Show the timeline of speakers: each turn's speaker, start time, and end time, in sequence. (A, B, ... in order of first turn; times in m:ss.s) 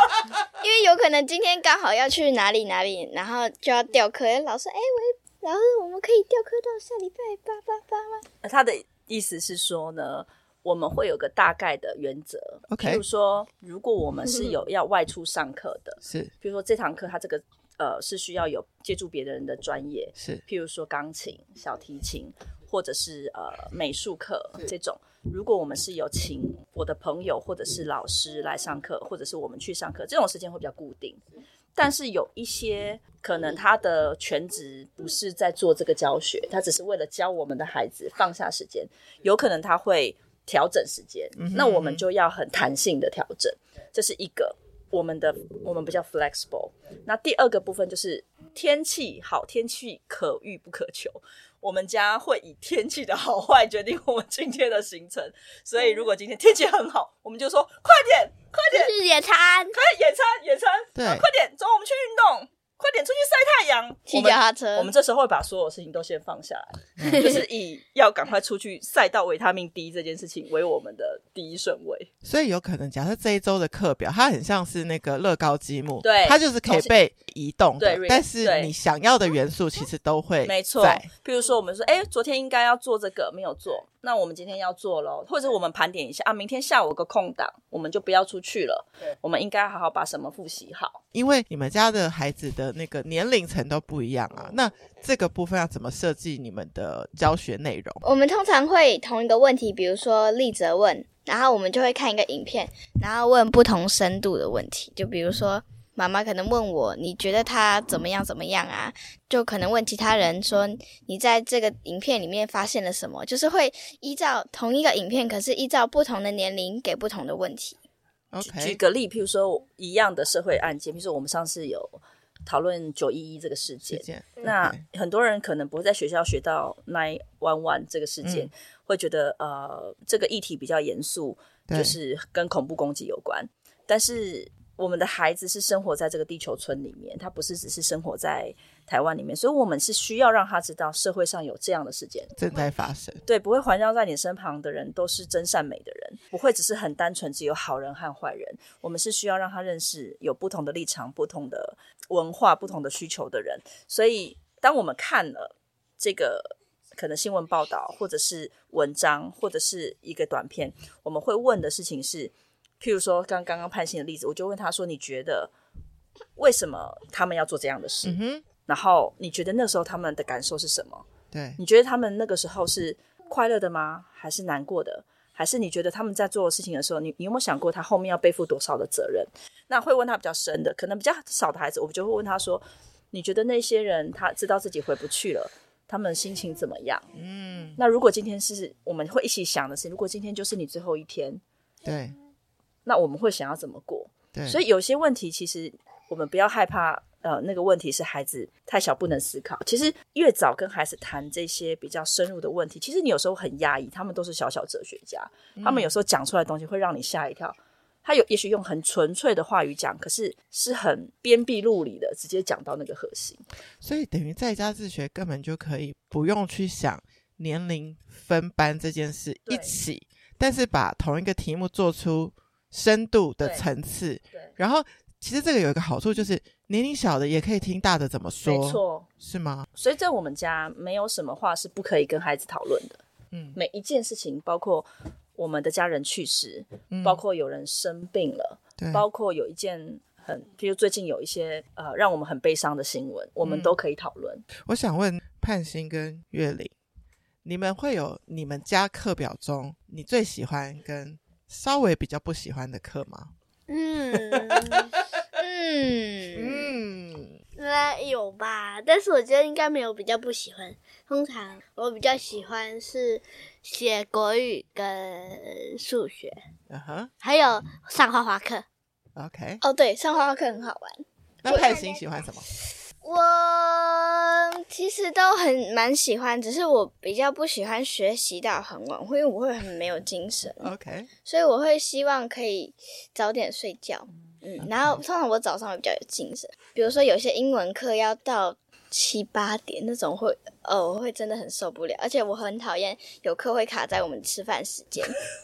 0:00.6-0:08.2 A
0:08.4-0:31.2 B
0:12.7-0:13.0 C
0:16.0-0:16.3 C
0:20.2-0:20.4 C
0:31.7-0:58.9 B
0:41.4-0:42.0 C
0:58.7-0:59.8 D
0:59.7-1:12.1 B
1:01.0-1:01.3 C
1:04.1-1:04.9 A
1:07.0-1:07.4 C
1:12.2-1:21.1 C
1:16.0-1:16.9 B
1:17.8-1:18.7 B
1:20.4-1:31.0 B
1:31.1-1:38.0 C
1:38.0-1:57.8 A
1:58.3-1:58.8 C
1:58.4-2:22.3 B
2:03.9-2:04.8 C
2:08.2-2:08.5 C
2:11.7-2:12.0 C
2:22.4-2:23.2 C
2:23.2-2:45.5 B
2:46.4-2:51.0 B
2:48.0-2:48.4 C
2:51.3-2:51.6 C
2:51.6-3:07.1 B
3:07.1-3:07.8 C
3:07.8-3:11.4 B
3:11.8-3:12.1 C
3:12.8-3:33.4 B
3:14.3-3:14.6 C
3:25.6-3:25.9 C
3:33.8-3:49.7 C
3:39.5-3:39.8 B
3:43.4-3:43.7 B
3:48.4-3:49.1 B
3:49.7-3:53.0 B
3:53.3-3:53.6 C
3:53.5-4:04.4 B
3:56.9-3:57.2 C
3:58.8-3:59.0 C
4:03.4-4:03.7 C
4:04.6-4:06.7 C
4:07.4-4:13.3 C
4:13.7-4:14.9 D
4:14.3-4:14.8 C
4:15.3-4:16.7 A
4:16.3-4:17.4 C
4:17.6-4:26.4 D
4:26.7-4:27.1 C
4:27.2-4:28.6 D
4:29.2-4:29.6 C
4:29.6-4:32.0 A
4:31.4-4:32.5 C
4:33.0-4:34.4 D
4:34.6-4:40.7 A
4:40.6-4:41.1 C
4:41.2-4:55.3 A
4:44.6-4:45.0 C